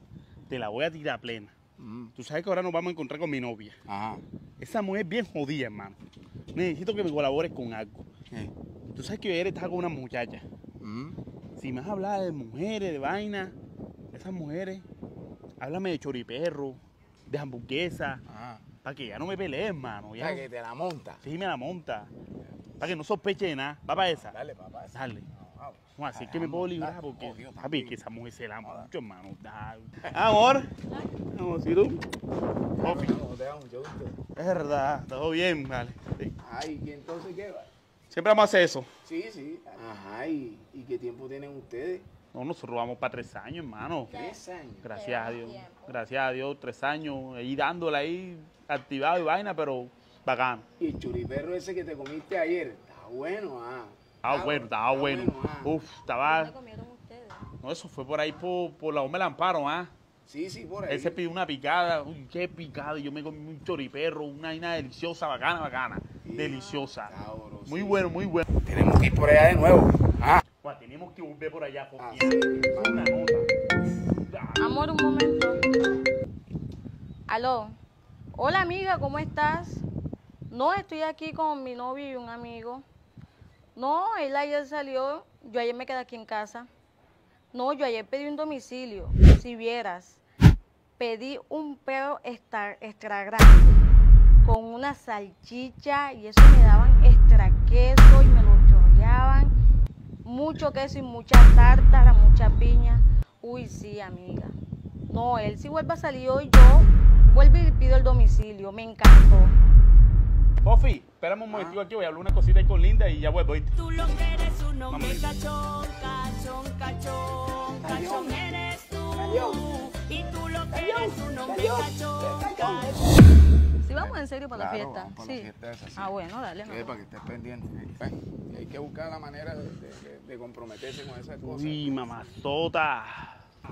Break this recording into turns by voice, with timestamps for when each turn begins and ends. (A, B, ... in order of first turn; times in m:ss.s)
0:00.5-0:01.5 A
0:01.8-0:02.1 B
0:02.2-0:03.8 A
0:03.9-0:04.2 B
0:04.6-0:06.0 A
0:06.5-0:08.0 A
0:08.9-0:10.4 A
0:10.8-0:11.2 B
0:11.6-0:13.5 A
0:14.1-0:14.8 A
0:15.6-0:18.2 A
0:18.3-0:18.6 B
0:18.8-0:20.4 A
0:20.2-0:21.2 B
0:21.2-0:22.1 A
0:22.8-0:24.4 A
0:24.2-0:28.0 B
0:24.9-0:25.3 A
0:26.0-0:32.0 A
0:28.6-0:28.9 B
0:32.8-0:34.2 B
0:32.8-0:33.1 A
0:34.4-0:36.4 A
0:36.4-0:37.7 B
0:38.1-0:38.9 A
0:39.0-0:42.1 B
0:42.3-0:44.2 A
0:44.1-0:44.9 B
0:44.8-0:50.6 A
0:45.0-0:45.7 C
0:50.8-0:55.8 B
0:54.2-0:56.5 A
0:56.2-0:57.5 C
0:57.6-0:59.9 A
1:00.2-1:01.2 B
1:00.9-1:07.1 A
1:06.2-1:08.1 B
1:07.7-1:08.5 A
1:08.6-1:10.4 B
1:10.6-1:13.5 A
1:12.0-1:13.2 B
1:14.1-1:14.8 A
1:14.6-1:15.6 C
1:17.3-1:17.8 C
1:18.4-1:19.8 C
1:20.5-1:22.8 C
1:23.8-1:26.7 C
1:27.5-1:30.2 C
1:31.0-1:33.8 C
1:34.4-1:39.5 C
1:40.2-1:44.6 C
1:45.1-1:49.6 C
1:50.6-1:53.7 A
1:51.5-1:51.8 B
1:53.8-2:03.0 D
1:54.9-1:55.2 A
1:57.8-1:58.4 B
1:59.2-1:59.6 B
2:00.7-2:03.3 B
2:03.8-2:07.0 C
2:03.9-2:06.1 B
2:06.6-2:12.2 B
2:11.4-2:13.3 A